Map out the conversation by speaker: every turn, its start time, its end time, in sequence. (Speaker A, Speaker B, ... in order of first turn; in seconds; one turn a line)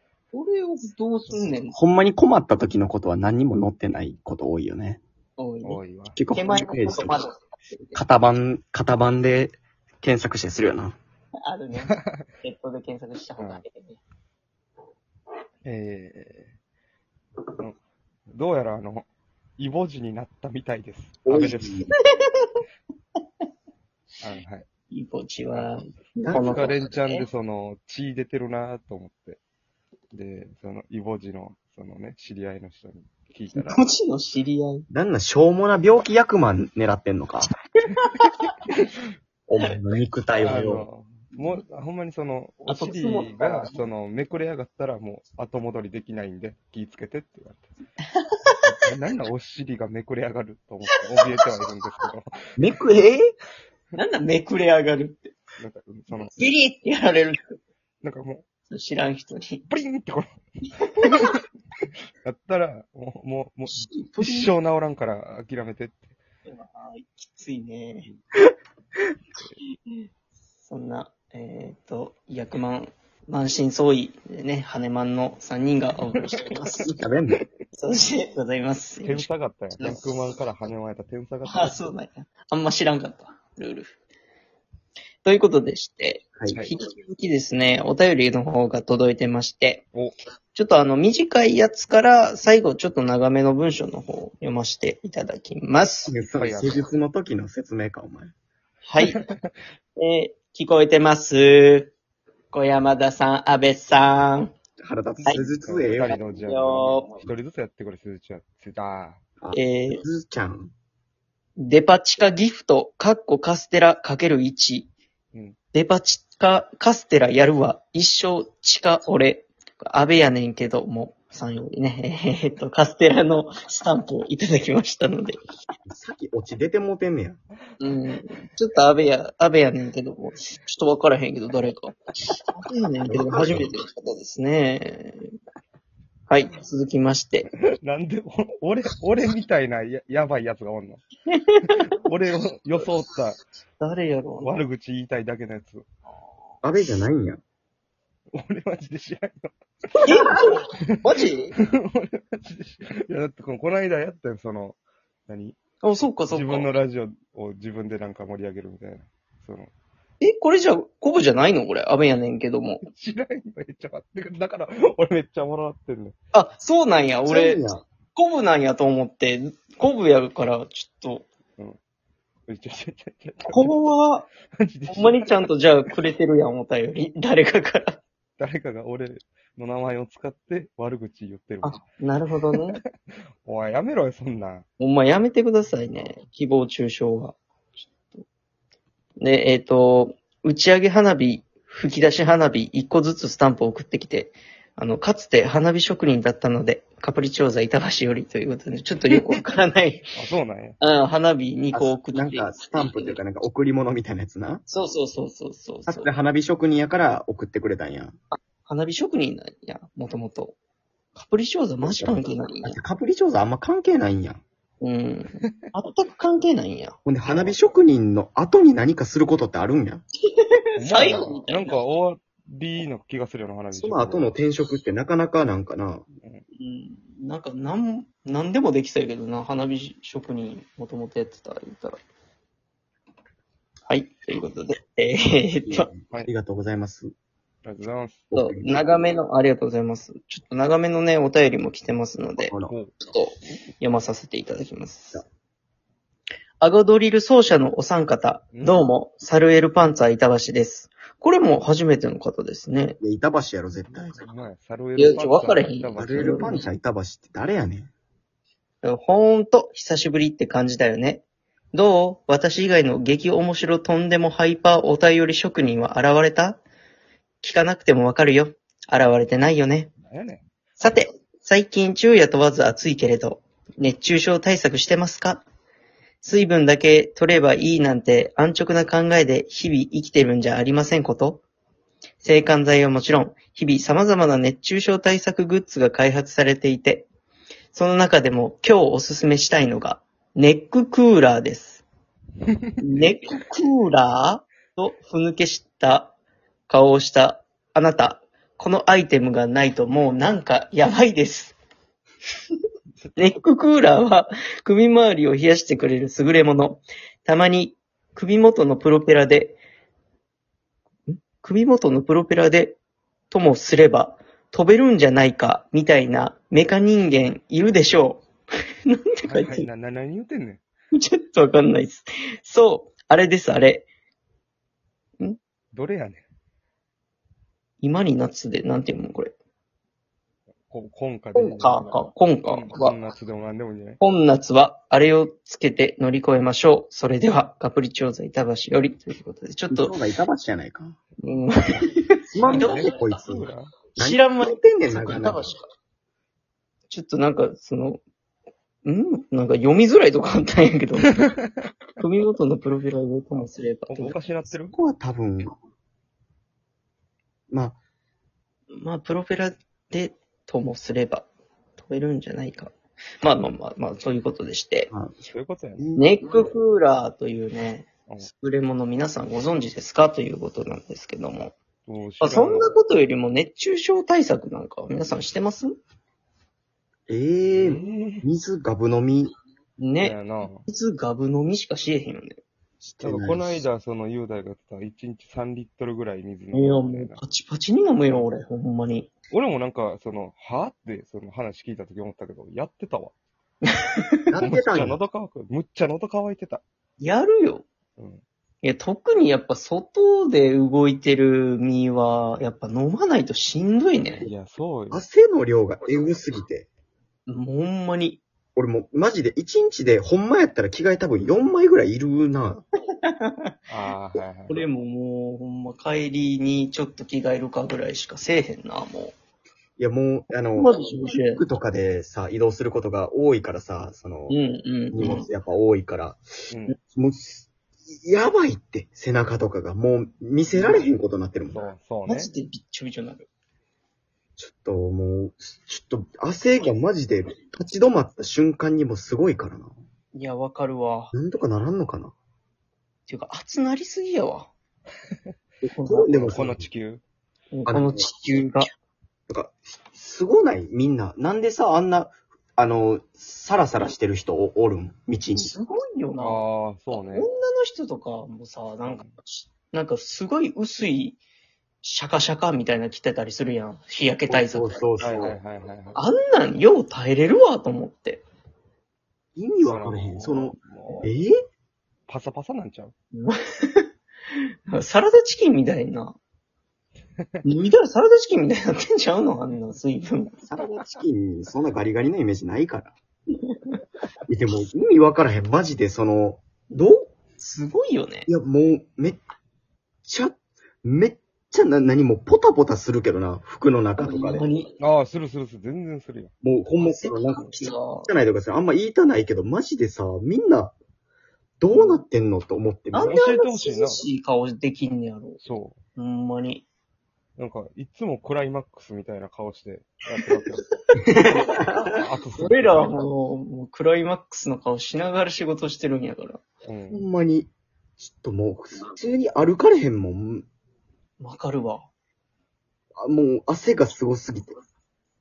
Speaker A: 0.3-1.8
Speaker B: 1.3-1.6
Speaker C: 1.7-5.0
Speaker A: 5.4-5.8
Speaker B: 5.6-6.2
Speaker C: 6.1-7.2
Speaker A: 6.3-8.0
Speaker C: 7.9-10.9
Speaker A: 11.4-14.0
Speaker B: 11.8-12.1
Speaker B: 13.4-13.6
Speaker B: 15.6-16.5
Speaker B: 18.3-19.1
Speaker B: 19.6-21.9
Speaker C: 21.2-21.9
Speaker A: 22.0-22.6
Speaker B: 24.2-24.7
Speaker A: 24.9-27.3
Speaker C: 26.2-26.7
Speaker B: 26.3-29.4
Speaker B: 30.1-33.8
Speaker A: 33.5-34.9
Speaker C: 34.9-37.5
Speaker A: 38.0-38.5
Speaker C: 39.5-40.9
Speaker B: 40.4-47.7
Speaker A: 41.4-41.6
Speaker A: 42.7-43.8
Speaker A: 48.2-48.6
Speaker B: 48.6-52.4
Speaker A: 50.9-51.6
Speaker C: 52.6-53.3
Speaker A: 53.9-55.3
Speaker B: 55.6-56.3
Speaker A: 56.3-57.4
Speaker B: 58.0-58.4
Speaker A: 58.7-59.7
Speaker B: 59.7-60.3
Speaker B: 61.0-61.4
Speaker B: 62.2-66.1
Speaker A: 63.8-64.5
Speaker A: 66.5-68.1
Speaker A: 70.6-76.9
Speaker C: 76.8-77.4
Speaker A: 77.7-79.3
Speaker B: 79.0-81.9
Speaker A: 79.8-80.2
Speaker A: 81.4-84.0
Speaker A: 85.2-89.8
Speaker B: 86.5-86.8
Speaker A: 90.5-96.1
Speaker C: 96.0-98.3
Speaker B: 96.3-96.9
Speaker A: 98.8-99.2
Speaker B: 99.1-99.5
Speaker A: 100.0-101.9
Speaker A: 102.5-104.5
Speaker C: 104.8-106.2
Speaker B: 105.2-109.2
Speaker A: 106.0-107.2
Speaker C: 109.4-110.7
Speaker A: 109.5-110.0
Speaker A: 111.6-114.9
Speaker A: 115.7-125.4
Speaker C: 125.9-127.4
Speaker A: 127.8-131.9
Speaker A: 132.6-135.3
Speaker C: 133.1-133.7
Speaker A: 136.3-137.5
Speaker B: 137.8-141.0
Speaker A: 141.3-141.8
Speaker B: 141.7-143.4
Speaker A: 143.8-144.6
Speaker B: 144.4-145.8
Speaker A: 146.1-146.5
Speaker C: 146.6-147.4
Speaker B: 148.3-149.5
Speaker C: 149.9-150.2
Speaker A: 150.0-151.5
Speaker B: 151.7-154.8
Speaker B: 155.3-155.6
Speaker A: 155.8-156.7
Speaker B: 156.3-159.7
Speaker A: 160.2-162.8
Speaker B: 162.8-166.2
Speaker A: 166.3-167.6
Speaker C: 167.2-167.8
Speaker A: 168.2-171.3
Speaker B: 172.5-173.7
Speaker A: 173.5-174.3
Speaker B: 174.6-175.5
Speaker A: 174.9-178.0
Speaker B: 178.4-181.8
Speaker A: 181.6-182.8
Speaker B: 183.4-184.7
Speaker A: 184.8-187.4
Speaker A: 189.2-200.1
Speaker B: 199.1-199.4
Speaker B: 200.2-200.8
Speaker A: 200.8-203.2
Speaker C: 201.7-204.6
Speaker A: 204.7-206.1
Speaker C: 205.9-208.2
Speaker A: 208.3-210.6
Speaker A: 211.1-212.8
Speaker C: 211.8-214.4
Speaker A: 214.8-217.0
Speaker C: 217.0-220.0
Speaker B: 217.3-217.5
Speaker A: 220.2-221.8
Speaker B: 220.8-224.4
Speaker C: 223.7-226.0
Speaker A: 226.6-232.0
Speaker A: 233.9-235.9
Speaker C: 235.7-237.1
Speaker B: 237.7-238.3
Speaker C: 238.3-238.9
Speaker A: 238.3-242.5
Speaker C: 242.4-242.7
Speaker B: 242.7-242.9
Speaker A: 243.1-245.2
Speaker A: 246.6-253.0
Speaker B: 248.5-248.8
Speaker C: 253.0-254.2
Speaker B: 253.9-256.5
Speaker A: 255.0-256.6
Speaker C: 256.0-257.9
Speaker A: 258.8-266.6
Speaker A: 267.4-269.9
Speaker B: 270.0-270.5
Speaker A: 270.8-275.4
Speaker A: 276.2-281.4
Speaker A: 282.2-287.1
Speaker A: 287.7-291.8
Speaker A: 292.8-296.1
Speaker A: 296.7-301.6
Speaker A: 303.2-309.6
Speaker A: 311.1-312.8
Speaker A: 313.3-318.2
Speaker A: 318.9-319.7
Speaker B: 319.2-320.6
Speaker A: 320.9-323.9
Speaker B: 325.7-326.2
Speaker A: 327.8-329.3
Speaker B: 330.7-334.0
Speaker A: 331.4-333.0
Speaker A: 334.0-340.0
Speaker C: 339.7-341.0
Speaker A: 341.2-343.0
Speaker C: 342.3-345.5
Speaker B: 342.4-343.8
Speaker A: 343.9-345.6
Speaker A: 346.9-348.0
Speaker A: 348.9-351.2
Speaker A: 352.0-354.1
Speaker B: 353.9-354.8
Speaker C: 354.7-355.5
Speaker C: 357.5-357.8
Speaker A: 358.7-364.9
Speaker C: 364.9-365.1
Speaker B: 365.3-365.8
Speaker C: 365.8-366.5
Speaker A: 366.0-371.6
Speaker B: 371.9-372.8
Speaker A: 372.2-375.8
Speaker C: 377.1-379.3
Speaker B: 377.5-378.2
Speaker A: 379.8-382.4
Speaker B: 380.0-380.6
Speaker C: 382.8-383.6
Speaker B: 383.0-387.2
Speaker A: 386.5-389.1
Speaker B: 389.3-393.1
Speaker A: 393.6-394.3
Speaker C: 394.3-395.0
Speaker B: 394.4-396.6
Speaker A: 397.0-397.6
Speaker B: 398.0-398.2
Speaker A: 398.6-404.3
Speaker B: 404.2-405.0
Speaker C: 404.9-406.7
Speaker A: 407.3-408.2
Speaker C: 408.5-412.6
Speaker A: 413.0-413.5
Speaker B: 413.7-414.7
Speaker A: 414.5-419.1
Speaker C: 419.8-424.4
Speaker A: 420.5-421.4
Speaker A: 424.3-425.3
Speaker C: 424.9-426.2
Speaker B: 426.5-426.8
Speaker C: 426.9-431.6
Speaker A: 430.6-430.9
Speaker B: 431.5-432.3
Speaker A: 432.1-433.3
Speaker C: 434.4-439.7
Speaker A: 440.1-441.1
Speaker C: 441.1-442.1
Speaker A: 443.1-444.5
Speaker C: 445.6-446.7
Speaker A: 445.7-446.2
Speaker B: 446.1-447.0
Speaker A: 447.5-448.7
Speaker C: 447.7-448.1
Speaker C: 449.3-455.5
Speaker A: 455.3-461.2
Speaker B: 456.2-457.3
Speaker B: 458.8-459.1
Speaker A: 461.8-465.1
Speaker C: 464.3-465.4
Speaker B: 465.0-466.0
Speaker A: 465.9-468.2
Speaker C: 469.4-471.3
Speaker B: 469.6-471.1
Speaker B: 472.1-472.9
Speaker A: 473.1-473.9
Speaker A: 474.7-476.2
Speaker A: 477.4-480.4
Speaker C: 480.4-482.9
Speaker A: 483.4-483.8
Speaker C: 484.3-487.1
Speaker A: 487.4-488.3
Speaker C: 488.3-489.2
Speaker C: 490.0-494.5
Speaker A: 494.0-494.7
Speaker B: 494.8-496.3
Speaker C: 496.4-500.7
Speaker A: 496.8-498.1
Speaker C: 501.6-503.1
Speaker A: 501.7-502.0
Speaker A: 502.9-505.4
Speaker B: 502.9-504.1
Speaker B: 505.4-505.8
Speaker A: 505.9-506.6
Speaker B: 507.4-510.6
Speaker A: 511.1-511.7
Speaker B: 511.9-513.0
Speaker A: 512.4-516.4
Speaker B: 516.6-517.1
Speaker C: 516.9-520.4
Speaker A: 521.2-521.9
Speaker C: 523.0-524.5